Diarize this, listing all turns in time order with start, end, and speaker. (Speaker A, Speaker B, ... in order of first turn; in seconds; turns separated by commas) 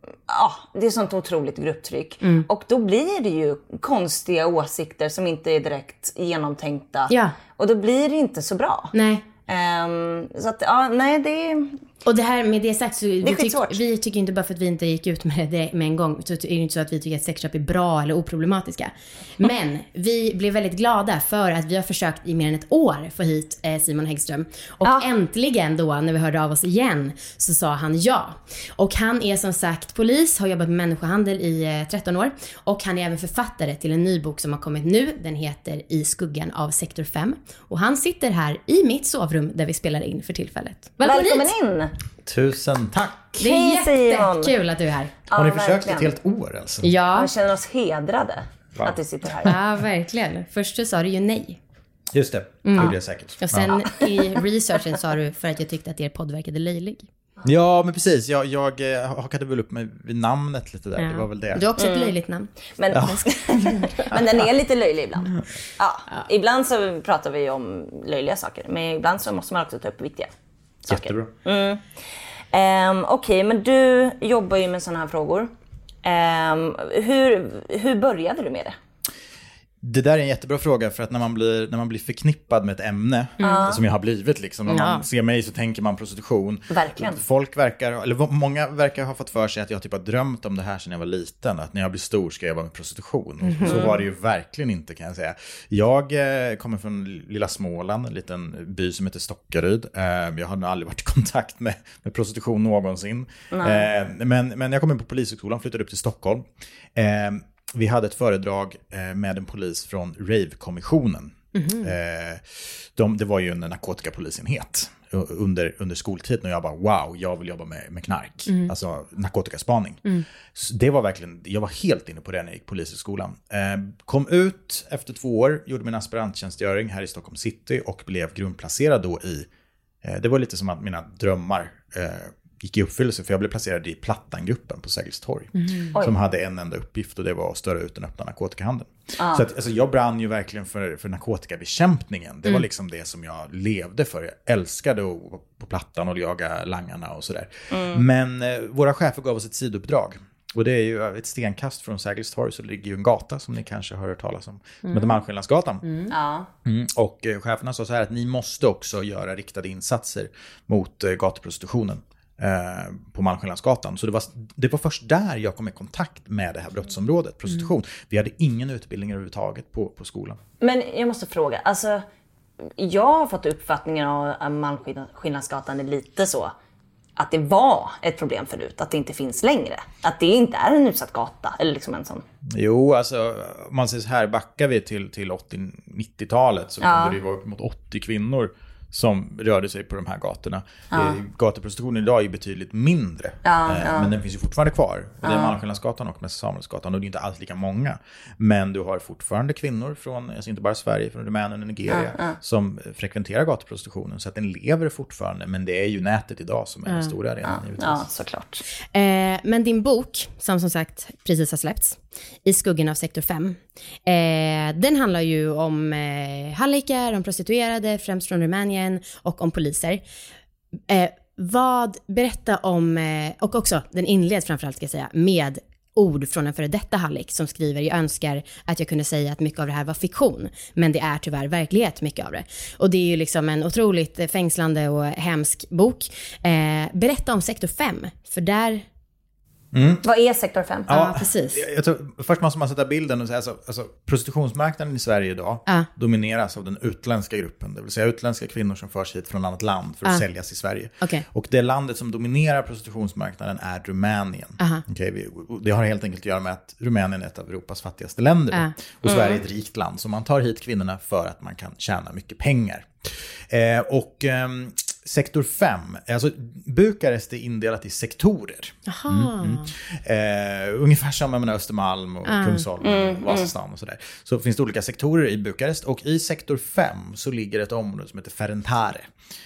Speaker A: 0.3-8.9, Speaker B: 7.1-7.4, Speaker B: 8.9-9.2, Speaker A: 9.4-11.8, Speaker B: 12.1-41.5, Speaker A: 13.2-13.8, Speaker A: 41.0-41.9, Speaker C: 42.2-43.4, Speaker A: 43.4-44.5, Speaker B: 43.4-45.1, Speaker A: 45.3-46.1, Speaker C: 45.3-46.9, Speaker B: 46.8-47.3, Speaker A: 47.1-49.6, Speaker C: 48.8-49.5, Speaker B: 49.4-51.6, Speaker C: 52.1-53.8, Speaker B: 52.6-57.1, Speaker C: 57.4-61.6, Speaker B: 61.0-64.0, Speaker A: 61.8-62.1, Speaker A: 62.8-70.3, Speaker C: 62.9-63.2, Speaker C: 64.1-64.5, Speaker A: 70.8-71.8, Speaker C: 70.9-71.3, Speaker A: 72.5-75.5, Speaker A: 76.0-78.8, Speaker C: 79.8-129.5, Speaker B: 83.4-83.7, Speaker A: 83.4-83.8, Speaker B: 84.7-85.0, Speaker A: 86.7-87.2, Speaker B: 93.5-93.8, Speaker A: 93.6-94.0, Speaker A: 103.5-103.9, Speaker B: 111.5-111.9, Speaker B: 118.5-118.7, Speaker C: 130.0-156.0, Speaker B: 135.6-135.9, Speaker A: 139.2-139.5, Speaker A: 147.7-148.0, Speaker B: 154.8-155.1, Speaker A: 156.1-156.5, Speaker C: 156.7-170.4, Speaker A: 170.6-172.0, Speaker A: 172.8-176.5, Speaker A: 177.2-182.2, Speaker C: 182.5-208.1, Speaker A: 186.8-187.2, Speaker A: 190.9-191.2, Speaker A: 193.4-194.1, Speaker A: 195.2-195.6, Speaker A: 201.9-202.4, Speaker B: 206.9-207.1, Speaker A: 207.5-208.7, Speaker B: 208.9-220.0, Speaker B: 220.9-238.9, Speaker C: 239.7-240.0, Speaker A: 240.0-240.9, Speaker C: 240.9-279.1, Speaker B: 240.9-241.6, Speaker B: 254.6-254.8, Speaker A: 259.1-259.4, Speaker B: 268.9-269.7, Speaker B: 272.3-272.7, Speaker A: 272.8-273.5